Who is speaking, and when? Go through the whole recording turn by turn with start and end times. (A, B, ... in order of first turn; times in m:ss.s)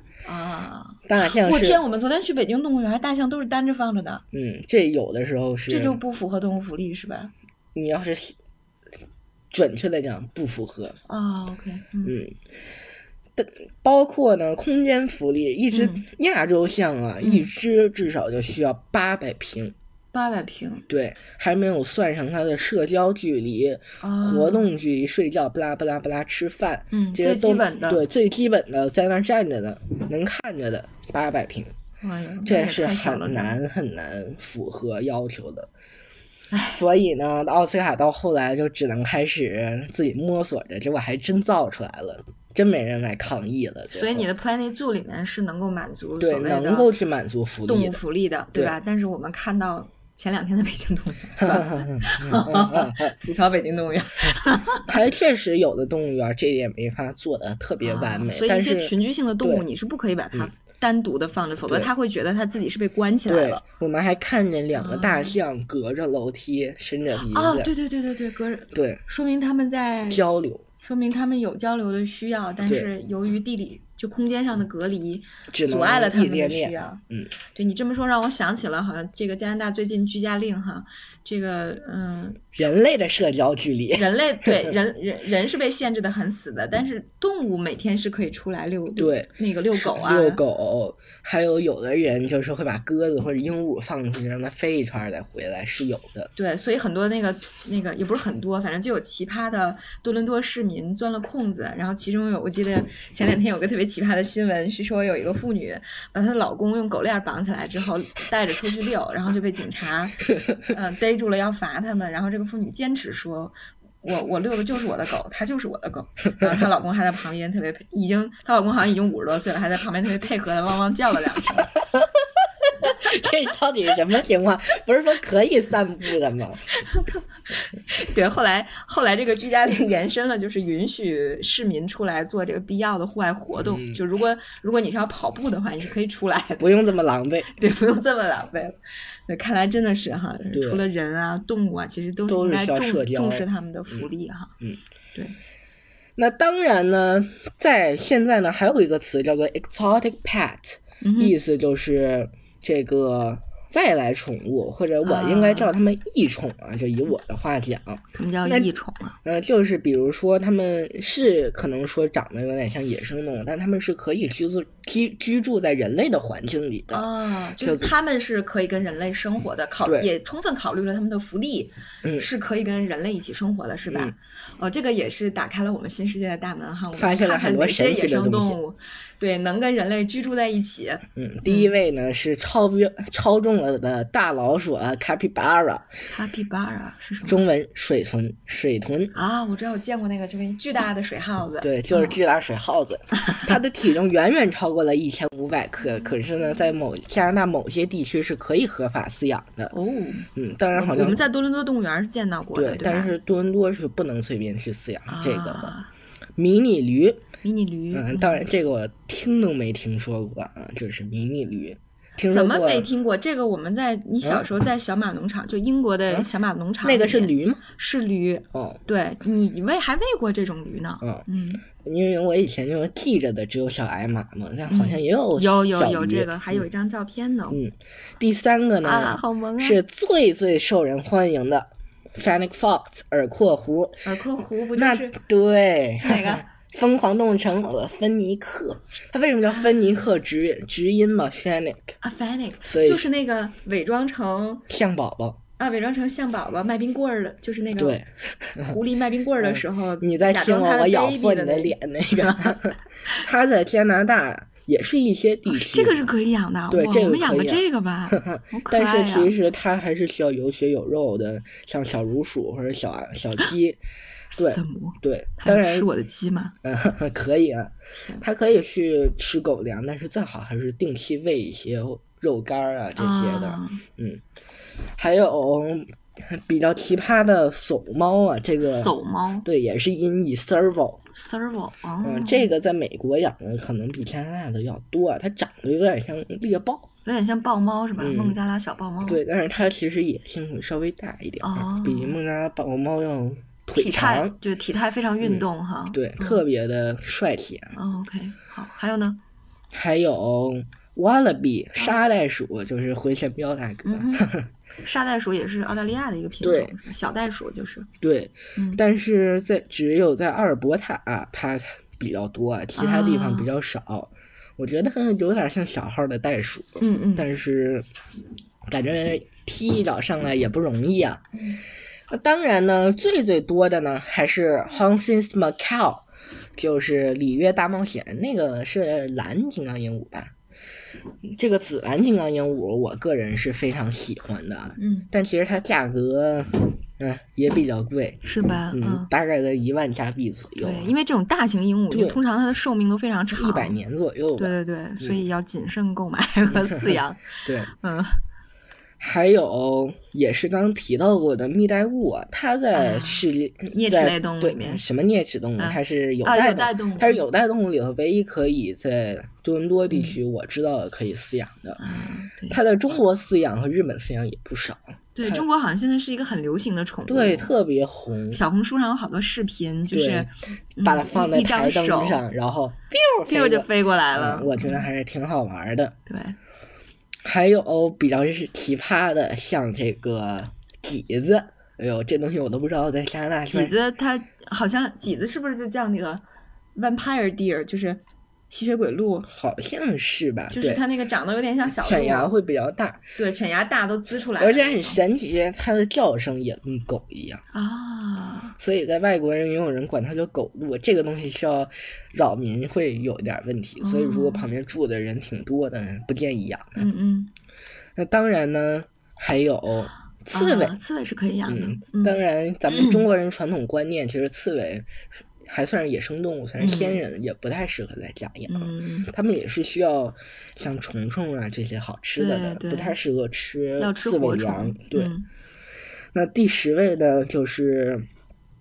0:00.2-0:04.2 A
0:01.0-0:01.8 B
0:04.3-0:06.0 B
0:05.7-0:07.3 A
0:07.7-0:08.4 B
0:09.5-0:11.0 B
0:11.1-0:12.2 A
0:12.0-0:12.3 B
0:13.4-0:19.7 B
0:15.7-0:16.0 A
0:17.2-0:17.5 A
0:20.1-0:20.8 A
0:20.9-0:31.7 B
0:24.0-0:24.7 A
0:26.9-0:28.0 A
0:32.0-0:33.6 A
0:32.4-0:35.7 B
0:36.5-0:36.8 A
0:36.6-0:44.3 B
0:43.9-0:46.9 A
0:46.2-0:48.0 B
0:47.6-0:54.9 A
0:51.4-0:53.1 B
0:54.8-0:59.6 B
0:57.8-1:03.6 A
1:03.3-1:07.7 B
1:04.7-1:05.4 A
1:07.2-1:10.2 A
1:08.7-1:09.0 B
1:10.1-1:10.6 B
1:10.8-1:17.0 A
1:15.5-1:17.3 B
1:17.5-1:22.6 A
1:22.6-1:24.7 B
1:23.9-1:30.4 A
1:29.0-1:36.3 B
1:36.4-2:01.8 A
2:01.8-2:06.6 B
2:06.8-2:07.2 A
2:07.8-2:16.7 A
2:13.6-2:14.0 B
2:16.6-2:17.5 B
2:17.5-2:24.5 A
2:20.5-2:20.8 B
2:22.3-2:24.1 B
2:26.2-2:38.7 B
2:31.0-2:31.4 A
2:35.0-2:35.7 A
2:38.1-2:39.2 A
2:39.2-2:47.9 B
2:46.9-3:01.7 A
2:56.9-2:58.6 B
3:01.2-3:05.9 B
3:06.1-3:07.4 A
3:07.2-3:09.1 B
3:09.1-3:12.2 A
3:11.6-3:19.7 B
3:13.2-3:13.5 A
3:19.7-3:23.1 A
3:20.3-3:21.2 B
3:22.5-3:25.7 B
3:25.1-3:25.9 A
3:26.4-3:27.2 B
3:27.4-3:28.4 A
3:27.9-3:32.9 B
3:32.3-3:41.6 A
3:36.8-3:37.6 B
3:38.5-3:38.8 B
3:41.8-3:46.7 B
3:44.7-3:47.6 A
3:47.5-3:54.0 B
3:48.8-3:49.8 A
3:54.0-3:55.2 A
3:54.8-4:01.9 B
3:56.0-3:56.5 A
4:02.0-4:04.6 A
4:02.6-4:03.0 B
4:04.7-4:05.4 B
4:05.6-4:08.0 A
4:07.8-4:08.8 B
4:08.6-4:13.2 A
4:09.4-4:16.0 B
4:15.5-4:19.3 A
4:16.7-4:23.8 B
4:24.3-4:26.5 A
4:24.4-4:25.9 B
4:26.6-4:34.2 B
4:33.0-4:33.8 A
4:35.0-4:41.0 B
4:38.6-4:39.4 A
4:41.1-4:42.5 A
4:42.0-4:46.9 B
4:47.0-4:49.2 A
4:48.0-4:48.4 B
4:49.0-4:54.4 B
4:51.4-4:52.2 A
4:53.7-4:56.4 A
4:55.2-4:57.7 B
4:57.7-4:59.2 A
4:59.7-5:04.5 B
5:03.8-5:04.3 A
5:04.8-5:07.9 A
5:06.4-5:06.7 B
5:08.0-5:17.9 B
5:12.8-5:13.5 A
5:16.8-5:17.3 A
5:18.7-5:21.2 B
5:22.1-5:26.0 B
5:26.6-5:30.3 B
5:31.2-5:40.9 B
5:34.8-5:35.1 A
5:38.2-5:39.1 A
5:40.6-5:43.8 A
5:41.9-5:42.2 B
5:43.3-5:45.2 B
5:44.4-5:48.2 A
5:46.5-5:47.7 B
5:49.0-6:01.8 B
5:52.7-5:54.8 A
5:55.6-5:57.2 A
5:59.9-6:00.2 A
6:01.8-6:02.6 A
6:02.5-6:05.4 B
6:05.2-6:07.5 A
6:07.1-6:08.4 B
6:08.3-6:12.2 A
6:09.9-6:10.3 B
6:10.8-6:16.0 B
6:13.2-6:14.8 A
6:16.1-6:16.4 A
6:17.2-6:23.7 B
6:23.5-6:26.2 A
6:26.8-6:29.3 A
6:29.3-6:30.8 B
6:30.5-6:32.3 A
6:31.7-6:33.0 B
6:33.2-6:35.0 A
6:34.4-6:37.4 B
6:37.5-6:38.5 A
6:38.6-6:46.8 B
6:43.8-6:44.5 A
6:46.8-6:47.3 A
6:48.0-6:50.8 B
6:50.3-6:53.0 A
6:51.5-7:05.1 B
6:56.6-6:57.0 A
6:58.5-6:59.1 A
7:02.2-7:03.0 A
7:03.8-7:05.2 A
7:06.1-7:08.1 B